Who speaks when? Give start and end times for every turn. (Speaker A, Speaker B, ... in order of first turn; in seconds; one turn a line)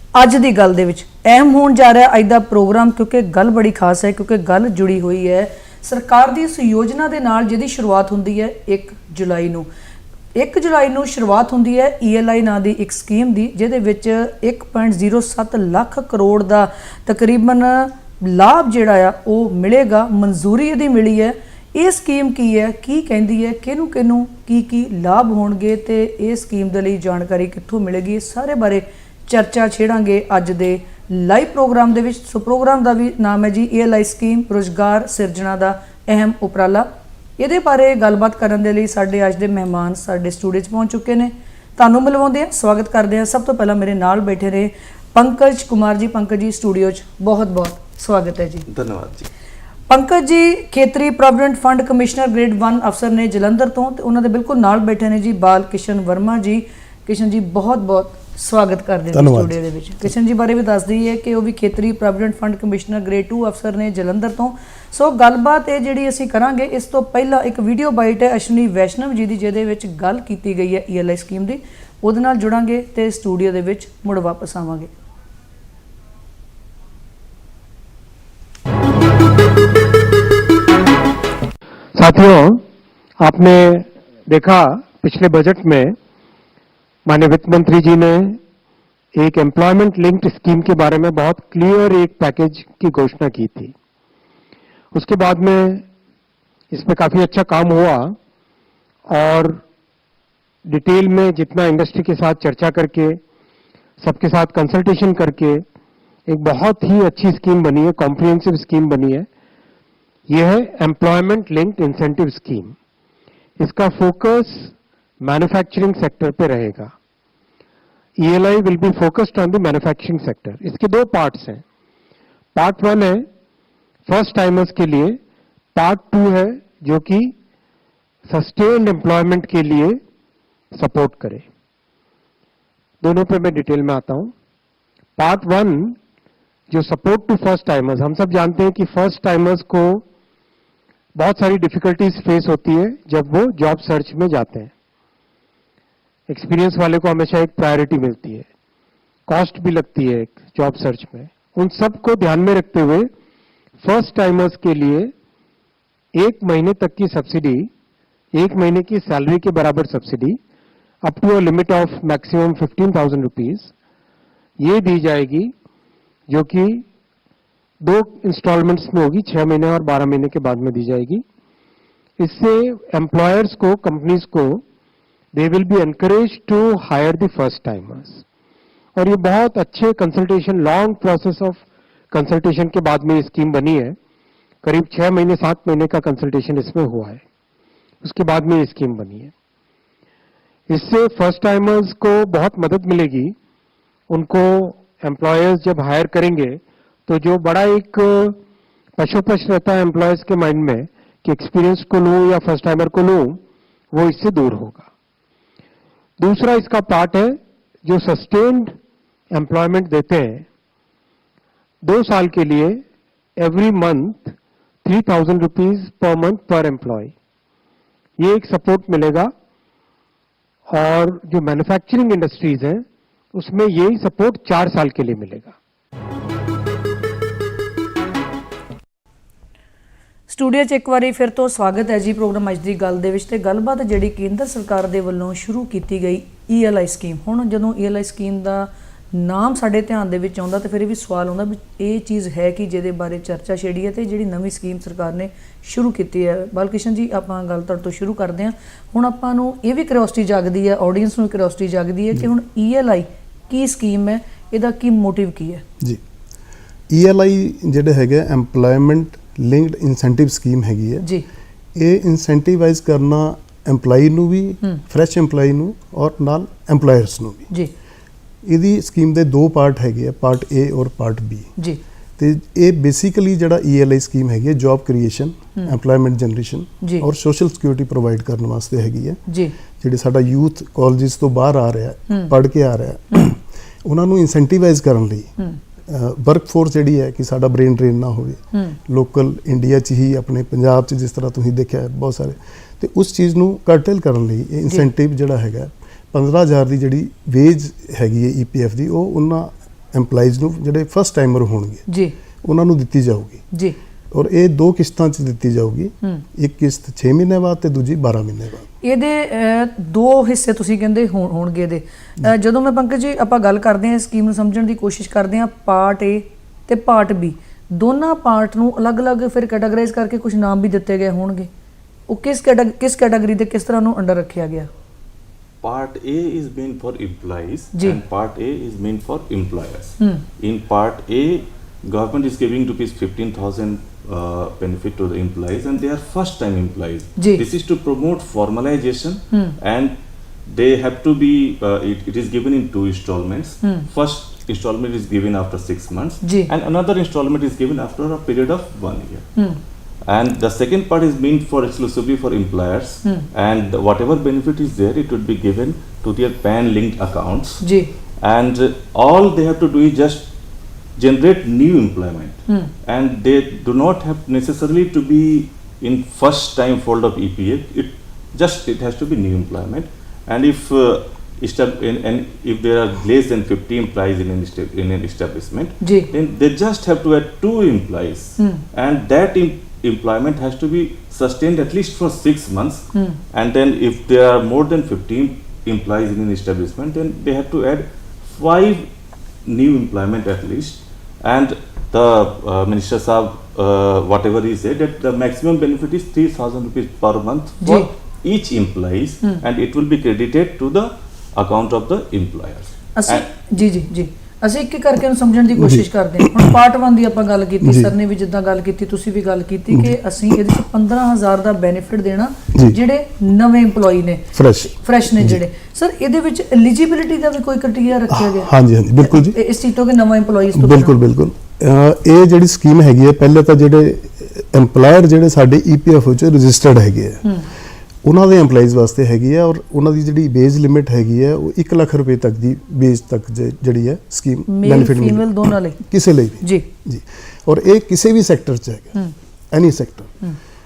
Speaker A: 0.1-9.7
Speaker A: 10.4-48.7
Speaker B: 48.7-49.3
Speaker A: 49.9-74.9
Speaker C: 59.1-59.6
Speaker D: 82.0-82.6
Speaker D: 83.2-86.0
Speaker D: 87.1-88.4
Speaker D: 89.2-93.7
Speaker D: 94.9-95.8
Speaker D: 96.7-98.2
Speaker D: 99.1-99.6
Speaker D: 100.7-103.2
Speaker D: 104.0-105.6
Speaker D: 106.3-109.3
Speaker D: 110.3-112.8
Speaker D: 113.6-116.9
Speaker D: 118.2-121.6
Speaker D: 122.5-123.3
Speaker D: 124.1-125.2
Speaker D: 125.8-127.3
Speaker D: 128.3-130.0
Speaker D: 130.7-131.5
Speaker D: 133.0-134.3
Speaker D: 135.2-136.0
Speaker D: 136.7-140.0
Speaker D: 141.2-144.7
Speaker D: 146.3-148.5
Speaker D: 149.3-153.1
Speaker D: 153.8-155.1
Speaker D: 156.2-157.7
Speaker D: 158.3-160.4
Speaker D: 161.0-163.7
Speaker D: 164.6-165.5
Speaker D: 166.3-166.9
Speaker D: 167.8-171.2
Speaker D: 172.2-174.6
Speaker D: 175.3-178.2
Speaker D: 179.0-184.0
Speaker D: 184.6-187.2
Speaker D: 188.0-189.3
Speaker D: 190.7-193.4
Speaker D: 194.1-198.4
Speaker D: 199.0-203.4
Speaker D: 203.9-204.9
Speaker D: 206.2-208.8
Speaker D: 209.3-210.5
Speaker D: 211.8-212.8
Speaker D: 213.4-217.1
Speaker D: 218.2-219.3
Speaker D: 220.7-225.6
Speaker A: 230.3-255.6
Speaker C: 256.9-261.1
Speaker C: 261.8-267.5
Speaker C: 268.4-271.5
Speaker C: 272.2-279.2
Speaker C: 279.8-285.3
Speaker C: 285.9-301.8
Speaker A: 301.9-302.1
Speaker C: 302.4-303.4
Speaker C: 304.1-308.7
Speaker A: 308.8-321.5
Speaker A: 322.1-324.7
Speaker B: 325.6-339.9
Speaker A: 337.2-337.4
Speaker B: 340.5-349.3
Speaker A: 346.2-346.5
Speaker B: 350.1-357.6
Speaker A: 357.6-357.9
Speaker B: 358.2-360.3
Speaker B: 361.0-388.9
Speaker A: 375.8-376.1
Speaker A: 382.9-383.2
Speaker B: 389.4-403.3
Speaker A: 397.6-397.9
Speaker A: 403.0-418.5
Speaker C: 405.6-406.3
Speaker C: 407.6-407.9
Speaker C: 412.5-412.8
Speaker C: 414.4-415.4
Speaker C: 418.1-419.4
Speaker A: 419.0-420.9
Speaker C: 420.5-427.4
Speaker C: 428.0-439.0
Speaker A: 434.5-435.8
Speaker C: 439.5-440.1